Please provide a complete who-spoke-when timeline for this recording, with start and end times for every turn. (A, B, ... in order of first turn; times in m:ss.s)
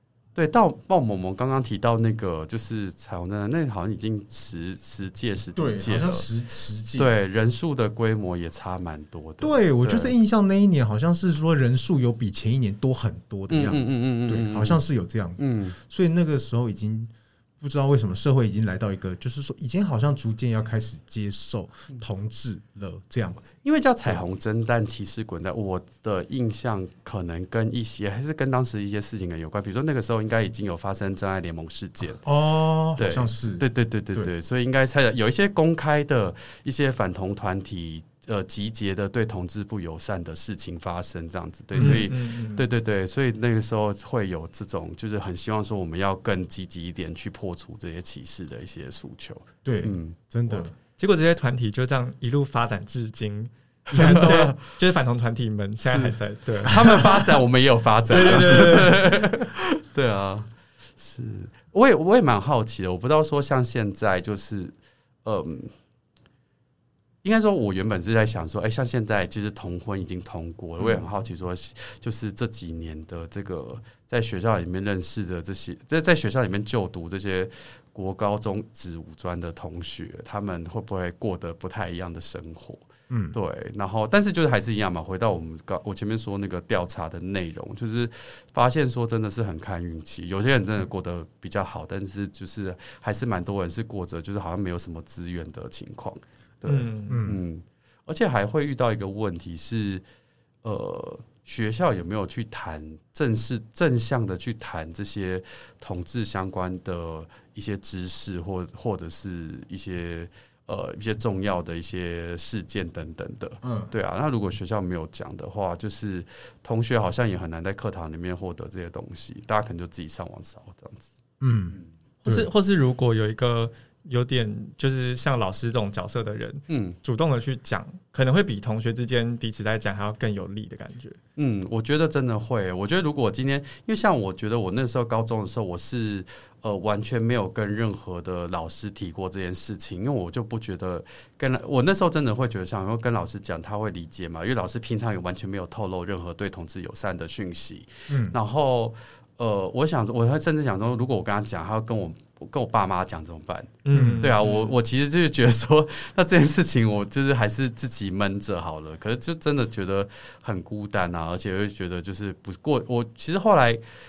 0:00.4-0:06.2 A
0:05.6-0:07.1 B
0:07.0-0:10.1 A
0:09.4-0:23.4 B
0:13.5-0:14.8 A
0:15.4-0:15.8 A
0:23.6-0:32.2 A
0:32.2-0:34.3 B
0:33.0-0:50.6 A
0:41.8-0:42.1 B
0:41.8-0:42.6 C
0:49.6-0:50.7 B
0:51.0-0:56.8 C
0:53.9-0:54.5 B
0:54.0-0:54.6 A
0:55.8-1:04.7 A
0:58.1-0:59.2 C
1:05.2-1:05.7 A
1:07.2-1:40.0 A
1:10.8-1:11.0 B
1:23.1-1:23.4 B
1:36.7-1:37.2 C
1:37.1-1:37.4 B
1:40.6-2:01.1 A
1:53.6-1:53.9 B
2:01.4-2:02.5 B
2:02.2-2:11.2 C
2:06.7-2:07.0 A
2:11.4-2:43.8 A
2:28.1-2:28.4 B
2:33.8-2:34.7 C
2:33.9-2:34.3 B